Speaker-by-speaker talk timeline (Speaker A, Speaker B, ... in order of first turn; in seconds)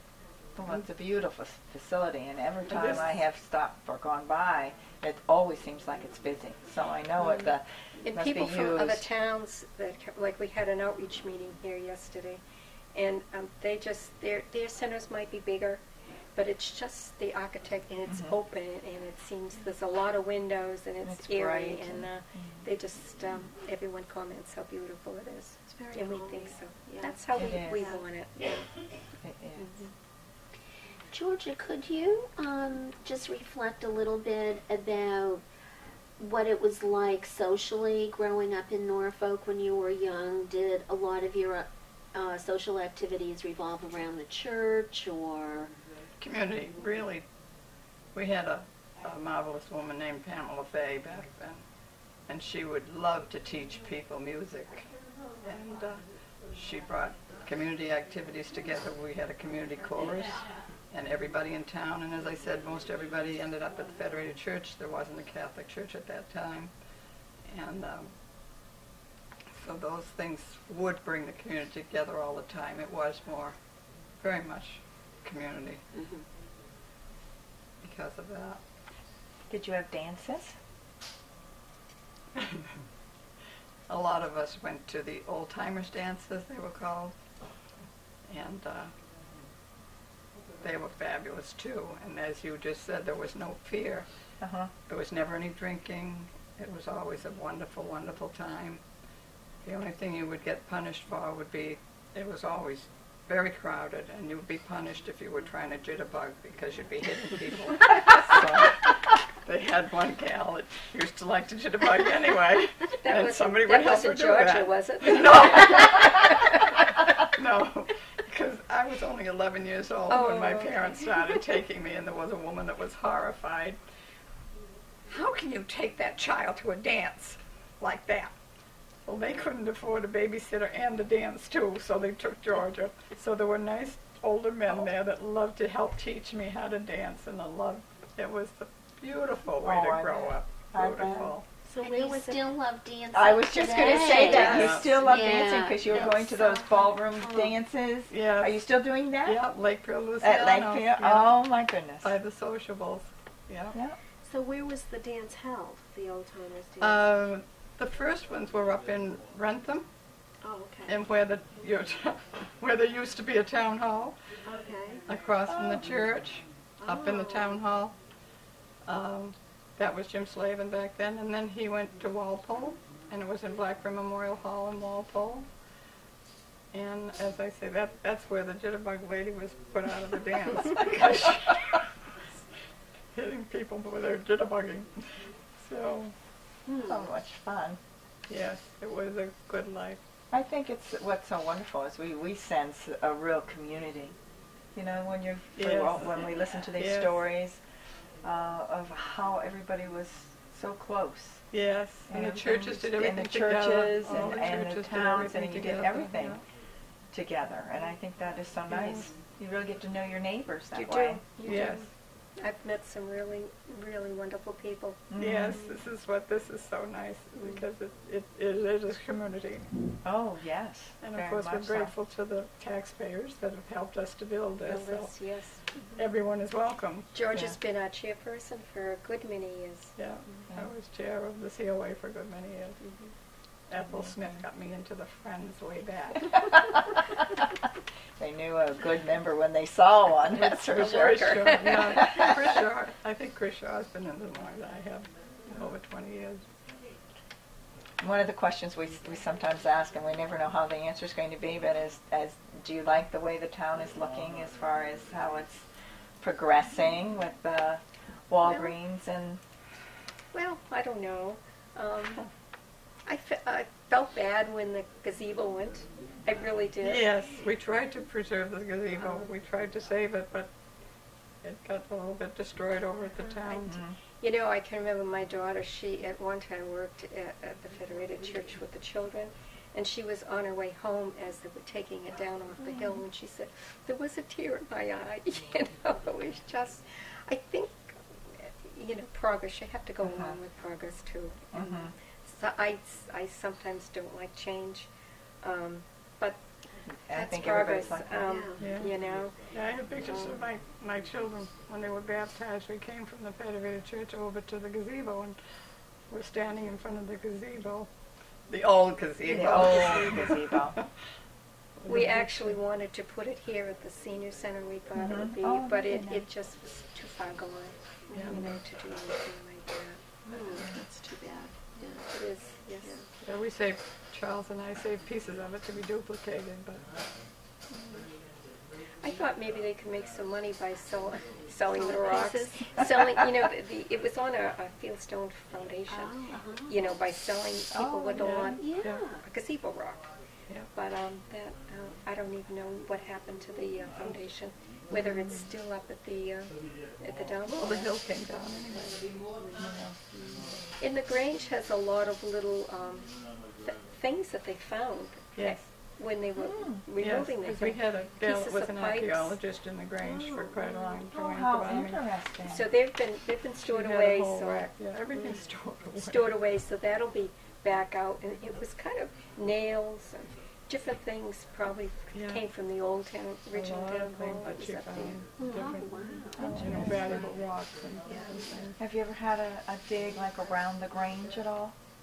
Speaker A: 0.6-9.1, 18.1-18.3, 21.0-22.6, 27.4-27.9, 29.2-29.8, 79.5-80.6, 94.4-94.7, 139.6-141.3, 143.1-149.4, 150.2-152.1, 165.5-165.8, 186.8-187.8, 190.3-194.2, 194.8-197.6, 198.2-201.4, 202.1-206.4, 207.1-211.6, 215.1-215.6, 220.0-221.9, 236.3-237.0, 238.2-242.5, 248.0-255.7, 256.2-259.4, 273.6-274.0, 290.1-290.3, 291.5-291.9, 296.9-298.5, 309.2-310.8, 315.0-316.3, 337.7-338.4, 349.6-349.9, 356.4-356.8, 361.1-362.7, 376.4-377.2, 378.8-381.8
Speaker B: 2.7-3.2, 46.2-47.2, 48.1-51.6, 52.3-54.9, 55.4-66.7, 67.5-68.1, 69.6-73.5, 74.2-75.8, 77.8-78.6, 82.4-82.7, 83.9-87.1, 88.3-88.9, 90.6-94.1, 94.9-98.8, 99.6-123.8, 125.1-128.3, 129.1-141.4, 144.1-145.2, 145.9-146.2, 148.1-148.7, 149.2-151.4, 152.0-153.8, 156.8-159.9, 160.9-164.2, 165.1-167.9, 168.8-175.5, 176.7-181.9, 183.1-186.1, 188.3-190.0, 195.6-197.2, 201.5-206.4, 211.4-211.9, 215.2-219.7, 221.0-225.1, 226.0-227.1, 230.0-232.8, 233.7-236.3, 240.5-246.4, 266.8-270.5, 271.4-273.8, 298.6-298.9, 299.5-305.4, 306.1-307.9, 308.5-310.9, 311.8-312.6, 318.1-318.4, 323.2-326.9, 338.2-339.0, 347.5-349.0, 355.4-355.6, 357.0-362.0, 363.6-366.3, 372.1-372.4, 373.5-378.8
Speaker C: 8.0-12.4, 12.9-15.8, 16.4-28.6, 113.0-116.8, 120.1-121.4, 143.7-144.8, 210.7-211.8, 212.4-215.0, 224.7-225.9, 227.1-229.9, 240.7-242.0, 260.3-262.3, 263.1-267.0, 274.2-294.9, 295.4-296.4, 297.1-299.5, 300.1-300.4, 311.9-320.0, 322.0-323.0, 329.0-340.0, 340.7-347.9, 350.8-359.4, 362.5-365.4, 365.9-375.2
Speaker D: 25.7-28.7, 141.7-142.6, 146.2-146.9, 154.2-157.0, 160.4-161.0, 164.4-165.0, 166.8-167.6, 186.7-187.0, 298.3-298.6, 318.1-318.4, 320.3-322.1, 331.8-332.8, 335.9-336.8, 360.0-361.0, 375.4-375.7
Speaker E: 31.1-35.4, 36.2-45.7, 76.0-76.2, 141.8-146.1, 338.5-339.2, 375.5-376.6